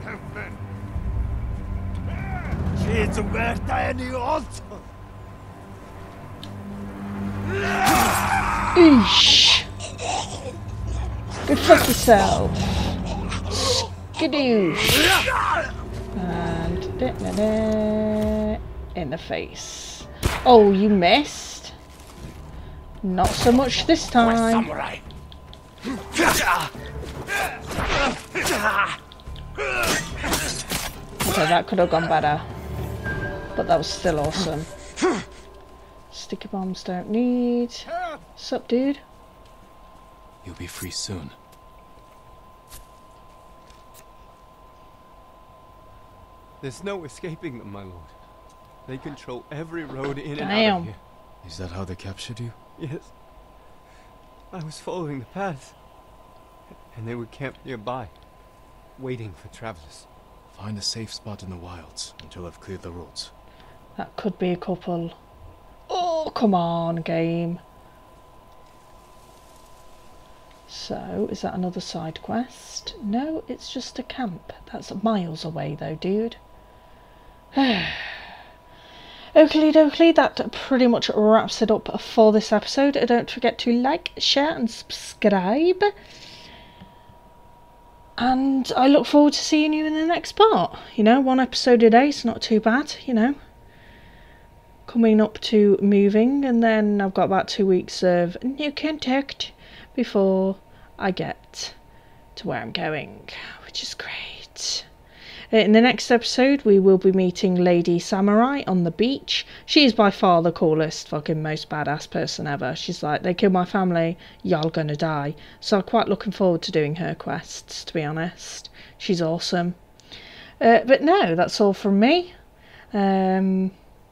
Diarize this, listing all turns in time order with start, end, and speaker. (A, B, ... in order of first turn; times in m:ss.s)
0:08.7-0:09.7 A
0:11.4-0:15.2 A
0:16.1-0:21.7 A
0:23.0-0:24.8 A
0:31.2-0:32.4 A
0:33.6-0:34.7 A
0:36.1-0:39.0 A
0:40.4-0:41.4 B
0:46.6-0:48.2 C
0:48.8-0:51.0 C
0:50.3-0:50.9 A
0:51.4-0:52.6 B
0:52.8-0:53.2 C
0:54.5-0:55.8 C
0:56.9-0:58.3 C
0:58.9-1:00.1 C
1:00.5-1:03.3 B
1:04.0-1:05.2 A
1:05.9-1:07.6 A
1:10.7-1:16.4 A
1:17.5-1:18.3 A
1:19.3-1:25.9 A
1:28.2-1:33.4 A
1:34.9-1:41.7 A
1:42.4-1:44.9 A
1:45.5-1:59.8 A
2:00.6-2:02.3 A
2:02.9-2:03.7 A